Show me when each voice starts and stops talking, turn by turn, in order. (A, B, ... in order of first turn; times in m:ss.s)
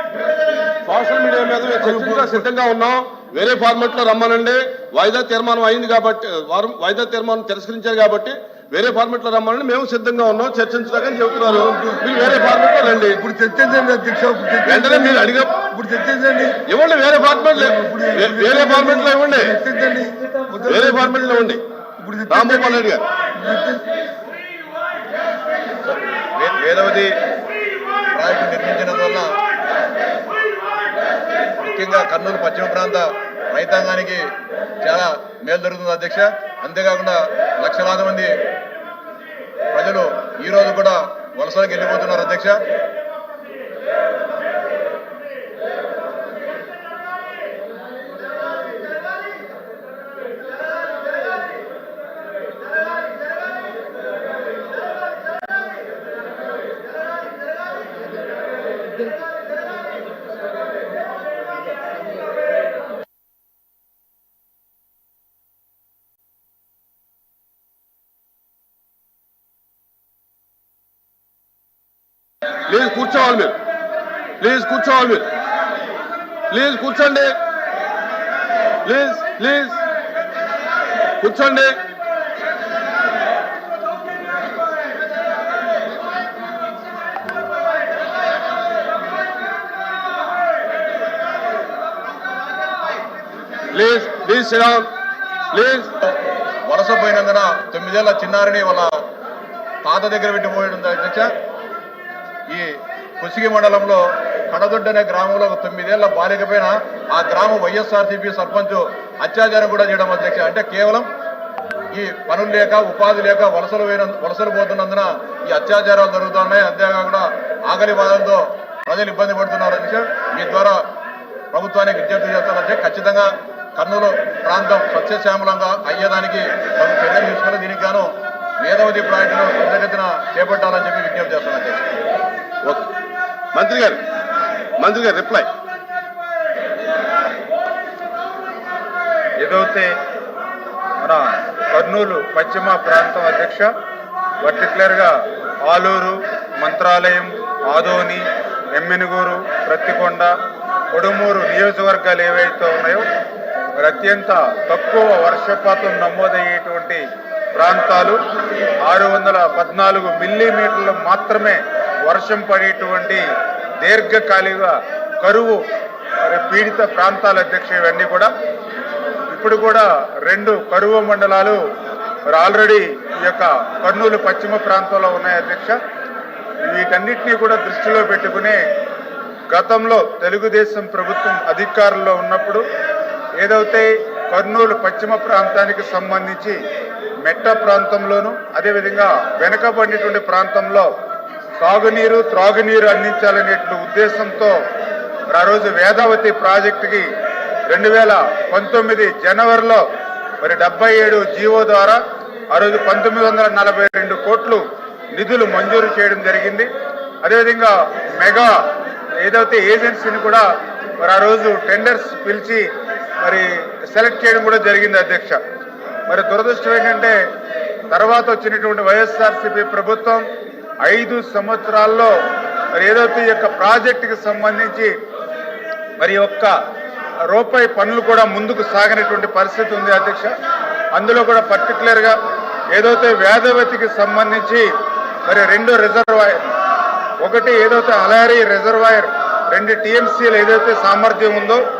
0:00.8-0:13.2 A
0:11.5-0:16.6 B
0:14.6-0:15.5 A
0:16.7-0:19.6 A
0:17.6-0:21.4 B
0:20.7-0:21.6 A
0:22.0-0:23.8 B
0:22.3-0:23.0 A
0:26.4-0:27.1 C
0:28.1-0:29.3 C
0:31.6-0:34.3 C
0:34.8-0:38.3 C
0:39.7-0:42.6 C
1:12.6-1:13.6 A
1:14.4-1:15.3 A
1:16.5-1:17.3 A
1:18.8-1:19.8 A
1:21.2-1:21.7 A
1:33.7-1:34.9 A
1:35.5-1:35.9 A
1:36.7-1:38.9 C
1:39.8-1:41.3 C
1:42.5-1:51.1 C
1:51.9-2:00.8 C
2:01.5-2:11.9 C
2:12.6-2:12.9 A
2:13.5-2:14.0 A
2:14.8-2:15.5 A
2:19.4-2:19.9 D
2:21.0-2:23.7 D
2:24.4-2:25.1 D
2:25.7-2:30.3 D
2:30.9-2:33.1 D
2:33.8-2:37.0 D
2:37.6-2:38.2 D
2:38.8-2:43.2 D
2:43.8-2:45.6 D
2:46.2-2:48.3 D
2:49.3-2:51.6 D
2:52.3-2:55.8 D
2:56.6-2:58.6 D
2:59.5-3:02.6 D
3:03.4-3:06.6 D
3:07.2-3:10.9 D
3:11.6-3:14.6 D
3:15.3-3:17.1 D
3:17.7-3:19.8 D
3:20.4-3:22.0 D
3:22.5-3:26.7 D
3:27.2-3:28.6 D
3:29.2-3:30.4 D
3:31.0-3:32.7 D
3:33.2-3:35.4 D
3:36.1-3:37.2 D
3:37.9-3:40.3 D
3:40.8-3:42.1 D
3:42.8-3:44.9 D
3:46.0-3:46.5 D
3:47.3-3:50.3 D
3:50.9-3:52.2 D
3:52.7-3:54.7 D
3:55.2-3:56.5 D
3:57.2-4:01.6 D